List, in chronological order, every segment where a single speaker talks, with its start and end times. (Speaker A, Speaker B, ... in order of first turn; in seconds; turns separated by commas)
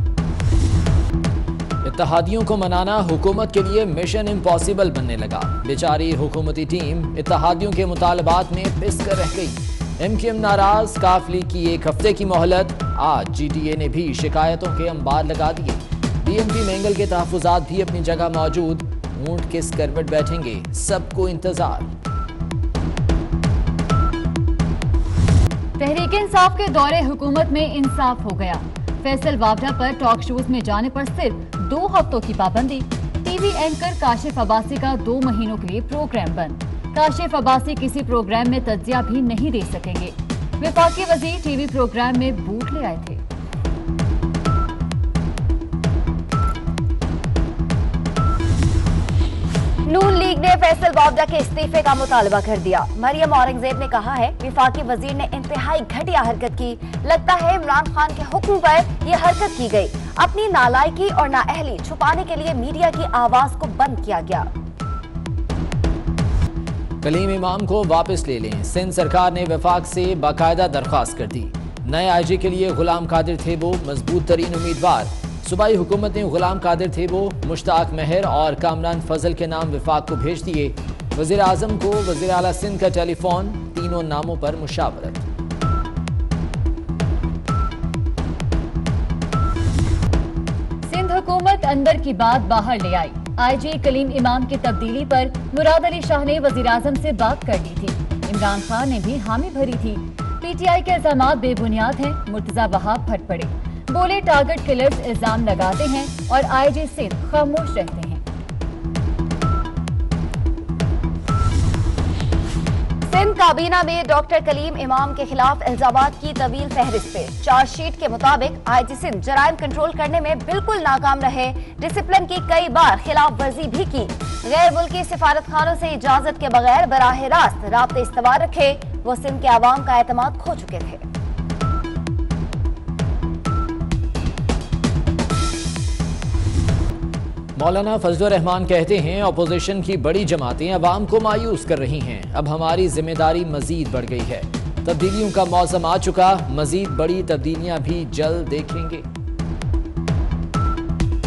Speaker A: 1.8-21.9, Speaker B: 25.8-43.2, Speaker C: 49.9-64.5, Speaker A: 67.0-85.2, Speaker B: 90.8-108.2, Speaker C: 113.0-131.0, Speaker A: 137.6-149.0